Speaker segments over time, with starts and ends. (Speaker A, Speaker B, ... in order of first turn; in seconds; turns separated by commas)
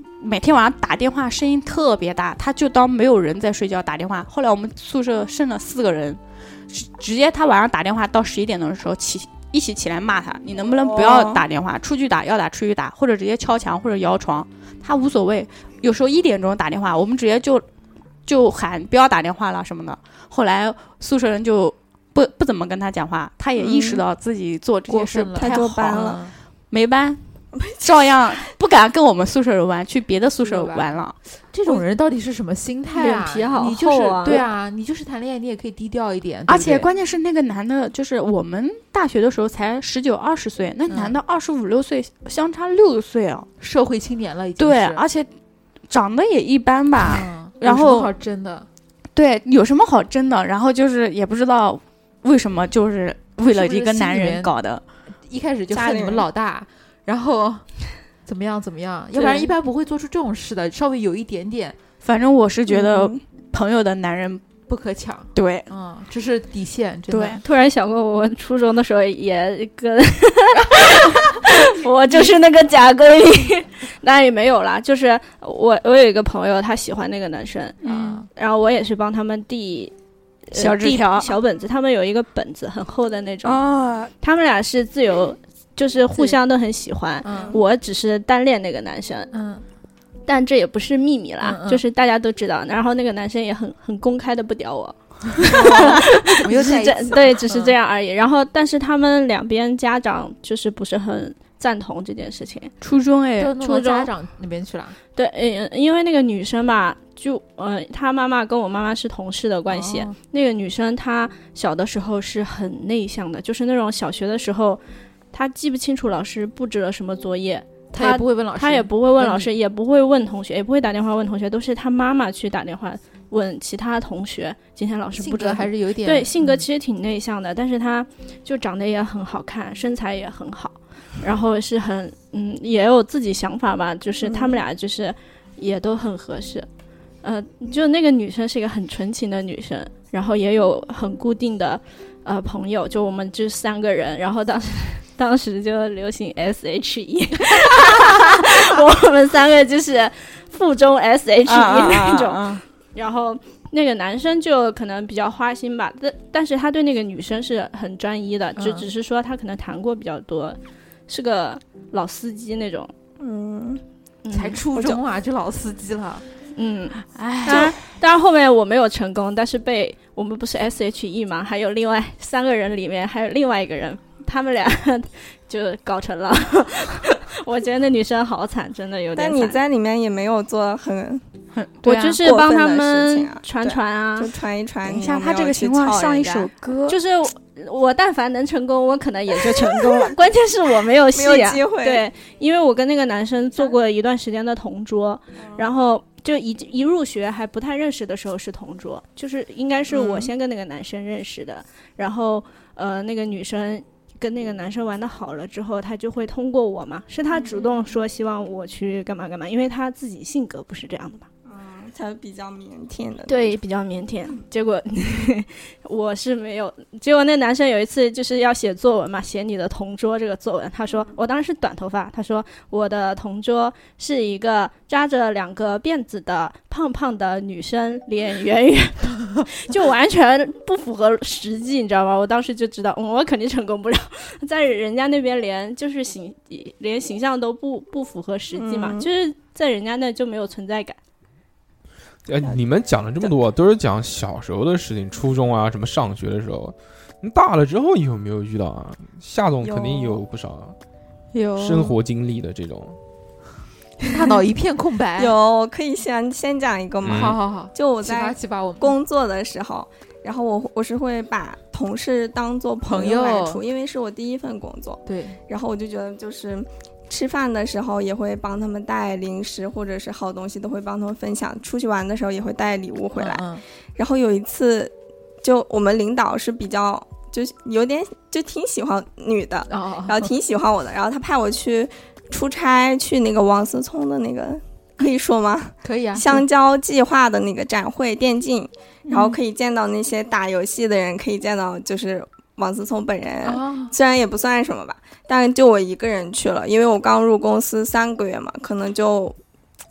Speaker A: 0.2-6.2, Speaker A: 6.7-17.6, Speaker B: 10.8-11.4, Speaker A: 18.2-26.2, Speaker B: 23.6-24.0, Speaker C: 24.9-26.3, Speaker B: 25.4-26.2, Speaker A: 26.7-27.2, Speaker B: 27.5-28.1, Speaker A: 27.8-31.1, Speaker C: 30.4-31.0, Speaker C: 31.5-36.9, Speaker D: 33.0-34.4, Speaker A: 36.5-43.5, Speaker C: 40.9-41.2, Speaker C: 43.6-45.0, Speaker A: 44.6-45.3, Speaker A: 45.9-48.1, Speaker C: 47.0-48.7, Speaker A: 49.1-54.8, Speaker C: 53.4-54.5, Speaker C: 55.3-57.7, Speaker B: 55.7-56.2, Speaker C: 58.2-61.8, Speaker A: 59.1-59.5, Speaker A: 62.0-64.4, Speaker B: 62.7-63.1, Speaker C: 64.7-67.4, Speaker A: 65.3-65.7, Speaker A: 67.1-67.4, Speaker D: 67.4-77.8, Speaker C: 70.6-71.0, Speaker A: 77.8-78.2, Speaker C: 77.8-78.3, Speaker D: 78.3-79.9, Speaker D: 80.5-83.6, Speaker A: 80.5-81.3, Speaker A: 83.4-84.1, Speaker D: 84.2-89.3, Speaker C: 87.2-87.6, Speaker B: 87.3-87.6, Speaker C: 89.3-89.6, Speaker D: 90.2-102.7, Speaker C: 91.4-91.8, Speaker C: 95.4-97.8, Speaker A: 102.8-103.5, Speaker C: 103.4-105.0, Speaker D: 103.6-104.1, Speaker D: 105.1-114.8, Speaker C: 109.7-110.1, Speaker D: 115.3-136.7, Speaker C: 117.9-119.5, Speaker C: 125.2-126.6, Speaker B: 134.2-134.6, Speaker D: 137.2-152.4, Speaker A: 151.5-152.6, Speaker D: 152.9-162.9, Speaker C: 158.6-158.9, Speaker B: 163.2-163.8, Speaker D: 164.2-164.6, Speaker C: 164.3-166.2, Speaker D: 166.6-179.6, Speaker A: 167.1-167.7, Speaker B: 167.5-167.7, Speaker B: 179.2-181.2, Speaker A: 181.5-182.2, Speaker D: 181.8-184.3, Speaker B: 182.2-186.5, Speaker A: 184.8-187.0, Speaker D: 186.9-211.3, Speaker B: 191.1-192.1, Speaker B: 195.4-195.7, Speaker B: 199.9-200.3, Speaker B: 207.3-207.7, Speaker B: 211.5-213.6, Speaker D: 213.3-241.0, Speaker B: 238.5-239.1, Speaker E: 242.3-250.7, Speaker B: 249.6-250.2, Speaker C: 251.3-251.9, Speaker E: 251.6-253.0, Speaker B: 254.0-254.3, Speaker C: 254.0-255.3, Speaker B: 255.2-299.4, Speaker E: 257.0-257.4, Speaker C: 257.1-259.0, Speaker C: 262.8-263.6, Speaker C: 265.1-265.4, Speaker C: 273.1-273.6, Speaker C: 279.7-280.3, Speaker C: 285.8-286.4, Speaker C: 289.1-289.4, Speaker C: 293.4-293.9